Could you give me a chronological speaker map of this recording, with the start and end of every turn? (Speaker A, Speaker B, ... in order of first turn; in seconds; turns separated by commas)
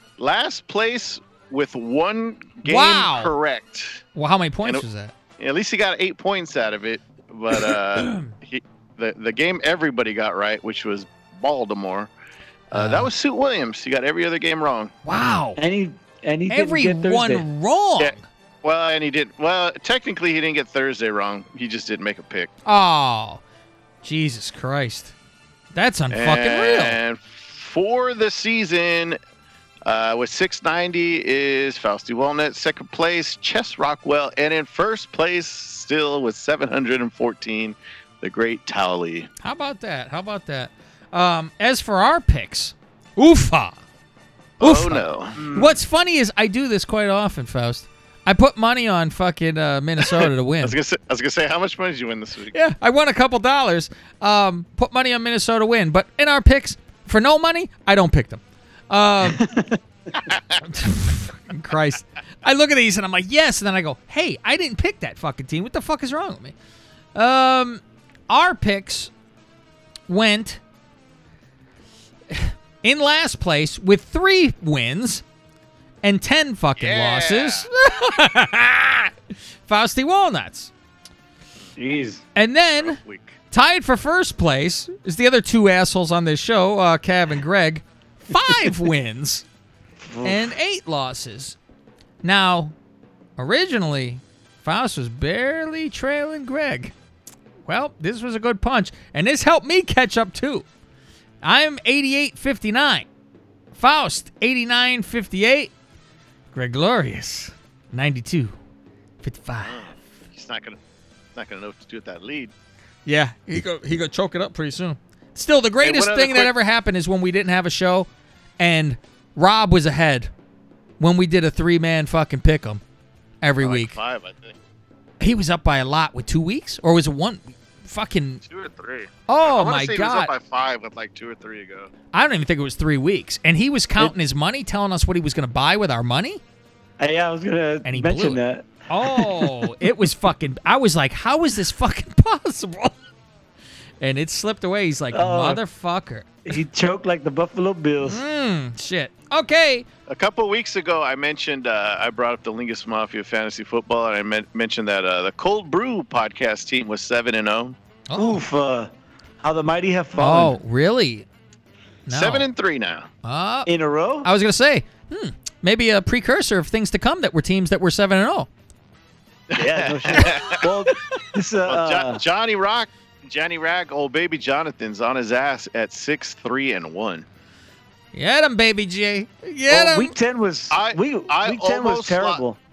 Speaker A: 0.2-4.0, Speaker B: 2.6-3.3, Speaker B: 4.1-5.1, Speaker A: 5.4-12.1, Speaker B: 7.9-8.3, Speaker A: 12.7-14.9, Speaker B: 12.7-13.1, Speaker B: 15.0-15.6, Speaker C: 15.6-17.4, Speaker B: 16.5-18.2, Speaker A: 18.0-22.5, Speaker B: 22.6-23.4, Speaker B: 24.0-25.1, Speaker B: 25.7-27.0, Speaker A: 26.1-29.2, Speaker A: 29.9-39.3, Speaker B: 39.4-43.8, Speaker A: 44.6-45.5, Speaker B: 44.6-50.7, Speaker C: 45.4-45.7, Speaker A: 50.1-52.5, Speaker B: 52.5-59.4, Speaker C: 59.3-59.8, Speaker B: 60.6-66.5, Speaker B: 67.1-69.1, Speaker B: 70.1-70.6, Speaker B: 72.3-75.2, Speaker B: 76.0-80.7, Speaker A: 76.8-77.7, Speaker C: 81.8-82.2, Speaker B: 82.3-83.0, Speaker A: 82.8-83.3, Speaker B: 83.5-89.4, Speaker C: 90.0-90.5, Speaker B: 90.2-91.6, Speaker B: 92.2-92.7, Speaker B: 93.4-96.9, Speaker B: 97.6-100.6, Speaker B: 101.4-103.1, Speaker B: 103.7-105.7, Speaker B: 106.5-108.5, Speaker B: 109.2-109.9, Speaker A: 109.7-110.8, Speaker A: 111.3-112.5, Speaker B: 113.0-118.1, Speaker A: 115.8-116.5, Speaker B: 118.6-120.3, Speaker B: 121.0-122.8, Speaker B: 123.4-124.0, Speaker A: 123.6-124.6, Speaker B: 125.2-128.4, Speaker A: 128.4-131.9, Speaker B: 129.3-130.3, Speaker B: 132.1-136.4, Speaker C: 137.0-139.4, Speaker B: 137.8-142.9, Speaker B: 144.0-146.5, Speaker C: 145.1-145.6, Speaker C: 146.5-148.2, Speaker B: 148.0-149.8, Speaker A: 150.1-157.8, Speaker B: 158.1-158.4, Speaker C: 158.2-158.9, Speaker C: 159.4-160.5, Speaker B: 160.2-161.3, Speaker B: 162.1-162.4, Speaker A: 162.1-163.1, Speaker B: 163.2-163.7, Speaker C: 163.7-164.3, Speaker B: 164.2-168.5, Speaker A: 169.5-170.7, Speaker C: 169.5-172.2, Speaker A: 171.6-177.2, Speaker B: 178.1-180.2, Speaker C: 179.7-182.6, Speaker A: 180.7-182.4